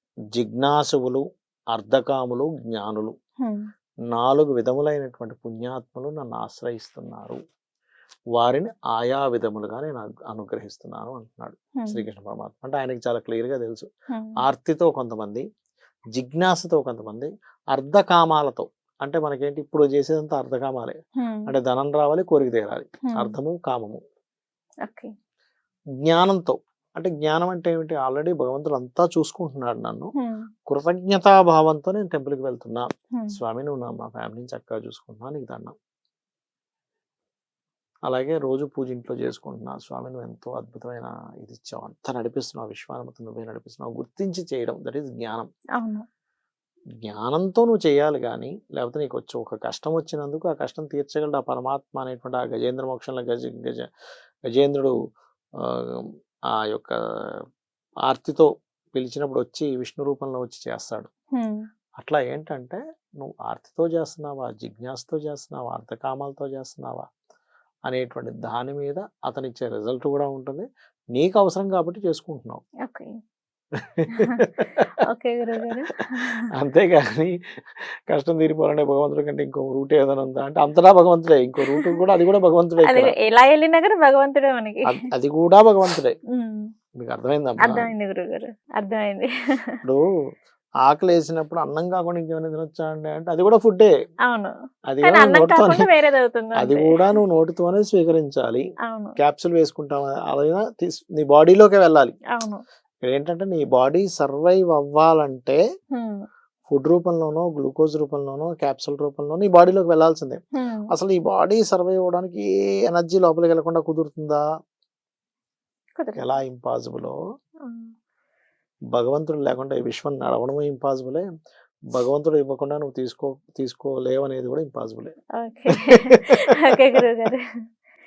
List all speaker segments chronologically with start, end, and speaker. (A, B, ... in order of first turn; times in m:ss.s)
0:00.3-0:03.1 A
0:04.1-0:07.4 A
0:08.4-0:13.9 A
0:11.8-0:12.0 B
0:14.1-0:14.4 B
0:14.4-0:15.4 A
0:16.2-0:24.0 A
0:21.2-0:21.5 B
0:23.1-0:23.4 B
0:24.8-0:25.1 B
0:26.0-0:30.1 A
0:30.7-0:35.7 A
0:38.1-0:45.5 A
0:45.8-0:46.0 B
0:47.0-0:53.9 A
0:54.5-0:54.9 A
0:55.6-0:56.1 A
0:56.6-0:57.3 A
0:58.1-1:01.1 A
1:01.4-1:01.6 B
1:02.0-1:07.0 A
1:07.9-1:12.6 A
1:14.0-1:14.9 A
1:14.1-1:14.4 B
1:15.1-1:16.4 B
1:16.5-1:23.1 A
1:22.8-1:25.0 B
1:24.9-1:26.2 A
1:26.3-1:26.7 B
1:27.0-1:27.9 A
1:27.6-1:29.3 B
1:30.8-1:33.9 A
1:34.3-1:37.0 B
1:34.9-1:35.8 A
1:36.6-1:38.6 A
1:38.9-1:39.2 B
1:39.2-1:42.2 A
1:42.3-1:42.6 B
1:43.0-1:45.6 A
1:46.7-1:54.4 A
1:50.6-1:50.9 B
1:56.0-1:56.4 B
1:56.2-1:57.2 A
1:57.6-1:57.9 B
1:58.9-2:01.2 A
2:01.9-2:05.1 A
2:05.4-2:07.5 B
2:06.7-2:07.0 A